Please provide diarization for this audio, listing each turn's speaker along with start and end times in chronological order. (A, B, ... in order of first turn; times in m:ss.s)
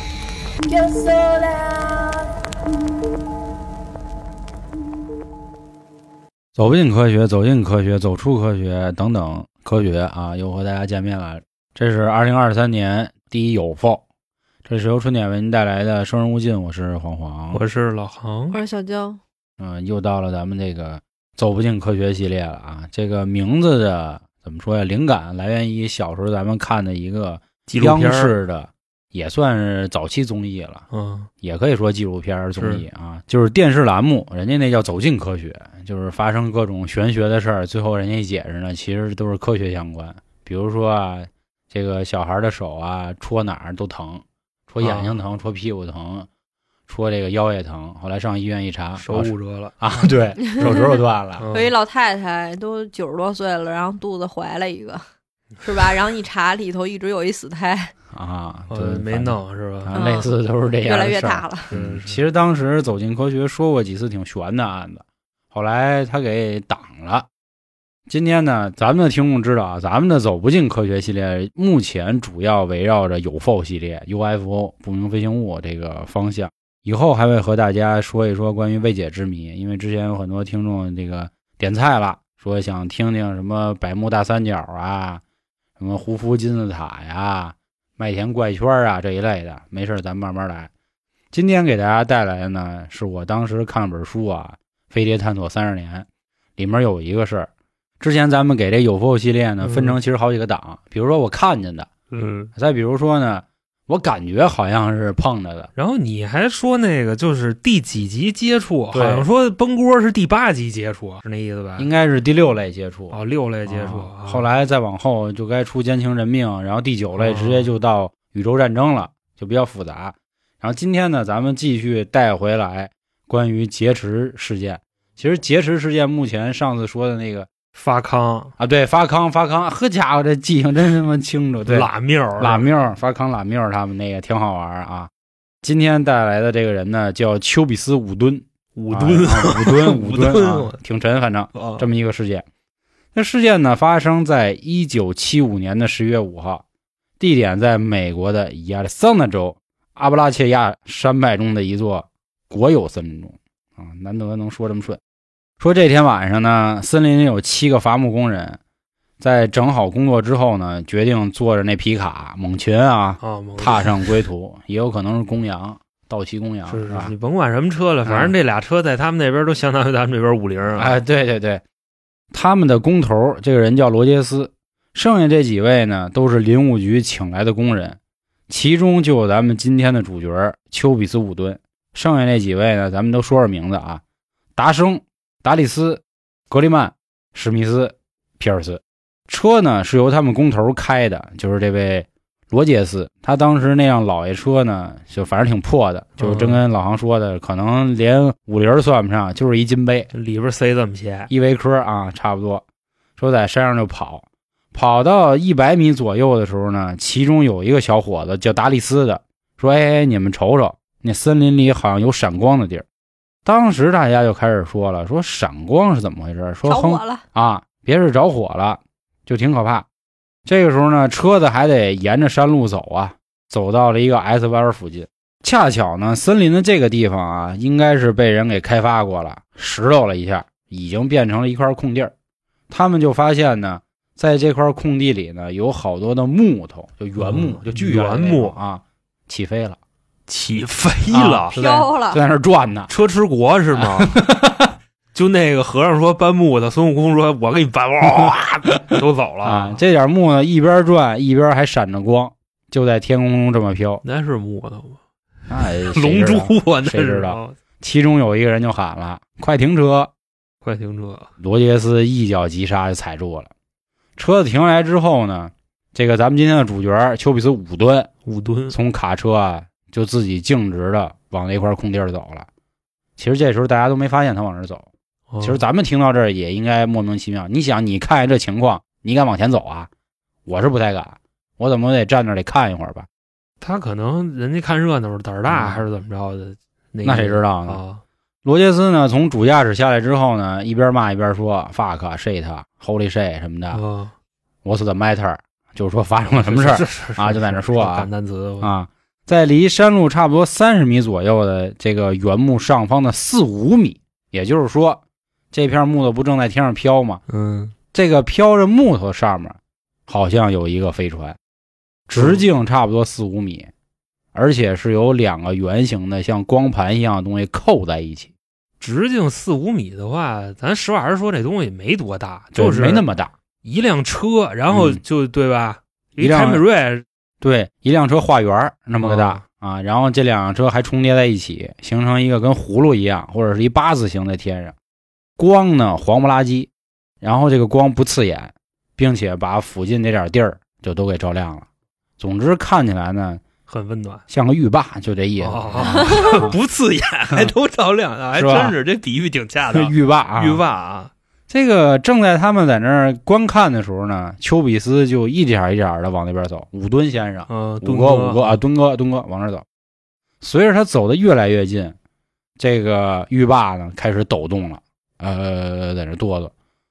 0:06.6-0:14.0 A
0:14.7-0:17.6 A
0:17.5-0:18.6 B
0:18.5-0:19.2 C
0:19.6-0:30.8 A
0:27.7-0:28.3 B
0:30.9-0:31.3 B
0:31.4-0:46.3 A
0:32.6-0:32.8 B
0:44.8-0:45.2 B
0:46.9-0:51.4 A
0:49.0-0:50.1 B
0:50.5-0:51.0 C
0:51.4-0:51.7 B
0:51.5-0:55.0 C
0:55.6-0:57.9 C
0:58.1-1:07.3 A
0:58.7-1:00.0 B
0:59.9-1:01.7 C
1:01.7-1:02.2 B
1:08.1-1:25.2 A
1:25.8-1:30.7 A
1:31.3-1:41.9 A
1:39.6-1:40.0 B
1:42.1-1:42.5 B
1:42.6-1:45.7 A
1:45.8-1:51.9 B
1:48.9-1:49.3 A
1:51.8-2:07.5 A
1:53.1-1:54.5 B
1:57.2-1:57.7 B
2:07.8-2:08.5 B
2:08.6-2:11.9 A
2:11.7-2:12.7 B
2:12.4-2:15.1 A
2:15.6-2:22.5 A
2:18.8-2:20.8 B
2:21.6-2:21.9 B
2:23.1-2:26.6 A
2:27.2-2:35.0 A
2:35.6-2:38.6 A
2:39.2-2:47.1 A
2:43.2-2:44.2 B
2:46.7-2:51.0 B
2:48.1-2:48.3 A
2:50.8-2:51.6 A
2:52.3-3:04.0 A
3:04.6-3:20.1 A
3:16.2-3:16.6 B
3:20.1-3:21.3 B
3:21.3-3:22.6 A
3:23.2-3:32.8 A
3:33.4-3:39.9 A
3:36.6-3:37.2 C
3:40.5-3:52.1 A
3:52.7-3:59.8 A
3:57.2-3:58.6 B
4:00.3-4:01.6 B
4:01.1-4:02.9 A
4:01.5-4:02.2 C
4:02.9-4:04.2 B
4:03.8-4:04.8 A
4:05.1-4:09.8 B
4:09.4-4:14.0 A
4:14.0-4:15.0 B
4:15.5-4:20.1 A
4:15.6-4:17.6 B
4:20.6-4:21.3 B
4:21.4-4:23.5 A
4:24.2-4:28.1 A
4:28.3-4:28.8 B
4:28.7-4:32.5 A
4:33.2-4:34.9 A
4:35.3-4:35.6 B
4:35.4-4:39.9 A
4:40.5-4:43.1 A
4:43.6-4:48.0 B
4:45.5-4:45.8 A
4:47.0-4:47.8 A
4:48.4-4:53.8 A
4:53.7-4:54.1 B
4:54.6-4:58.1 A
4:56.4-4:58.7 B
4:58.6-5:05.0 A
5:05.5-5:07.2 A
5:07.3-5:07.7 B
5:07.9-5:11.4 A
5:12.1-5:13.7 A
5:12.2-5:12.4 B
5:14.3-5:18.3 A
5:18.8-5:23.0 B
5:22.5-5:23.3 A
5:23.6-5:27.0 B
5:24.7-5:25.0 A
5:26.2-5:26.6 A
5:27.4-5:34.8 A
5:29.0-5:29.4 B
5:35.4-5:36.7 A
5:37.2-5:41.7 A
5:42.2-5:43.4 A
5:43.7-5:44.2 B
5:44.3-5:46.6 A
5:45.4-5:51.1 B
5:48.4-5:48.8 A
5:49.7-5:50.6 A
5:51.5-5:59.6 A
5:57.5-5:58.6 B
6:00.4-6:02.0 A
6:02.6-6:06.5 A